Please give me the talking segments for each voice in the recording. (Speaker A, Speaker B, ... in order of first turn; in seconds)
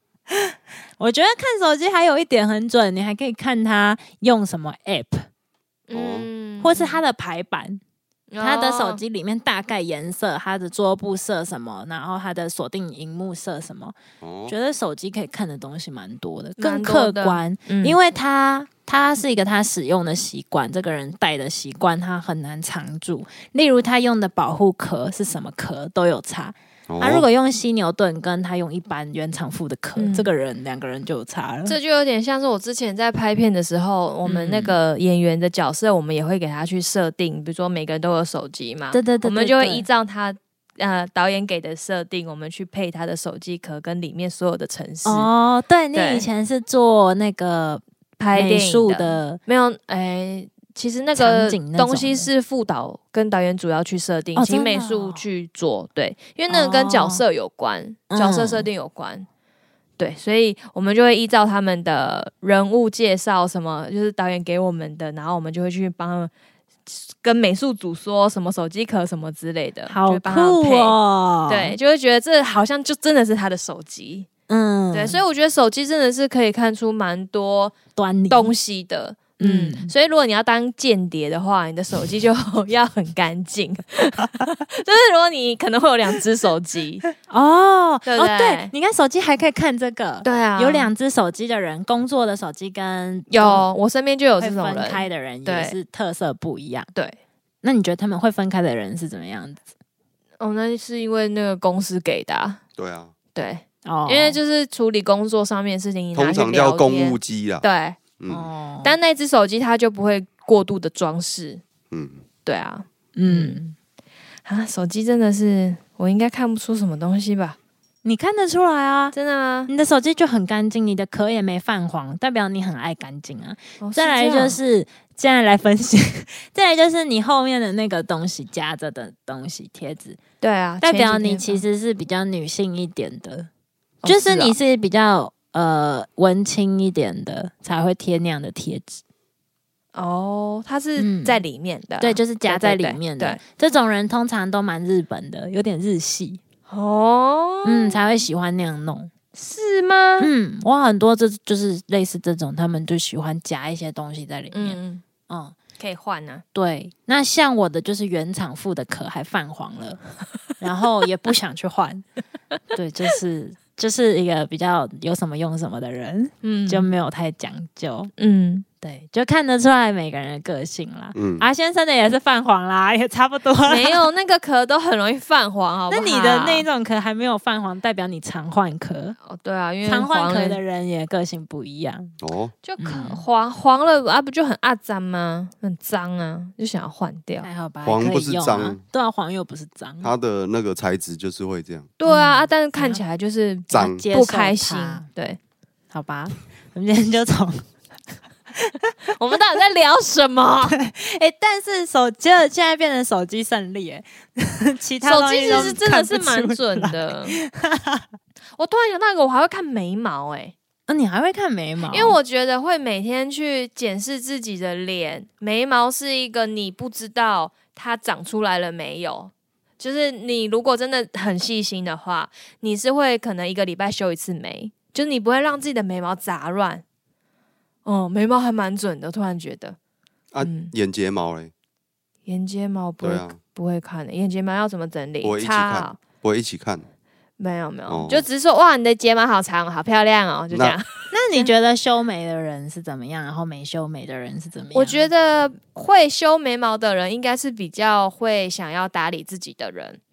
Speaker A: 0.3-5.3, 6.6-7.8, 8.4-31.8, 34.2-34.7, 38.9-39.9, 45.0-47.8, 48.3-49.4, 51.2-52.3, 54.3-55.2, 56.5-57.2, 58.1-58.7, 69.9-71.8, 74.5-75.2, 77.9-78.5, 79.4-79.9, 87.2-93.7, 94.4-96.9, 97.6-99.7, 103.8-104.4, 108.3-108.9, 113.2-113.7, 118.0-119.1, 119.7-130.2, 130.8-133.5, 134.1-139.0, 141.0-141.4, 142.0-146.4, 147.6-149.1, 150.2-154.8, 155.3-155.6, 156.5-160.0, 160.6-162.1, 162.7-168.1, 168.8-174.0, 175.9-179.2, 179.8-182.1, 182.8-183.2, 187.4-190.1, 192.1-193.0, 193.7-195.1, 195.9-197.7, 198.6-198.9, 200.7-208.1, 210.9-212.2, 241.1-245.0
Speaker B: 5.9-7.0, 8.3-9.0, 16.6-18.0, 29.9-30.3, 31.6-45.3, 45.9-46.2, 48.2-59.3, 60.0-66.3, 66.9-71.0, 71.5-74.3, 74.9-77.8, 78.3-87.1, 88.0-88.7, 90.2-90.9, 93.3-95.8, 100.4-102.6, 103.3-108.0, 108.8-111.6, 112.4-113.6, 114.5-117.6, 119.1-119.7, 123.8-124.6, 130.4-131.6, 134.0-134.6, 139.9-143.4, 146.7-148.0, 149.3-150.3, 154.5-155.0, 155.8-156.4, 166.4-166.9, 168.2-168.6, 173.7-176.7, 179.2-180.6, 182.6-187.5, 192.0-195.4, 199.1-200.8, 205.0-207.4, 208.5-210.5, 211.9-226.8, 227.8-229.8, 230.4-230.7, 232.2-236.0, 237.4-241.5, 244.7-250.0
Speaker C: 5.9-6.3, 14.2-14.5, 26.9-27.2, 102.8-103.1, 106.1-107.6, 108.2-108.5, 111.9-112.2, 171.1-171.5, 182.2-182.5, 187.8-188.8, 190.0-191.9, 230.3-231.5, 233.0-233.4, 235.2-236.8, 237.9-238.3, 240.5-240.8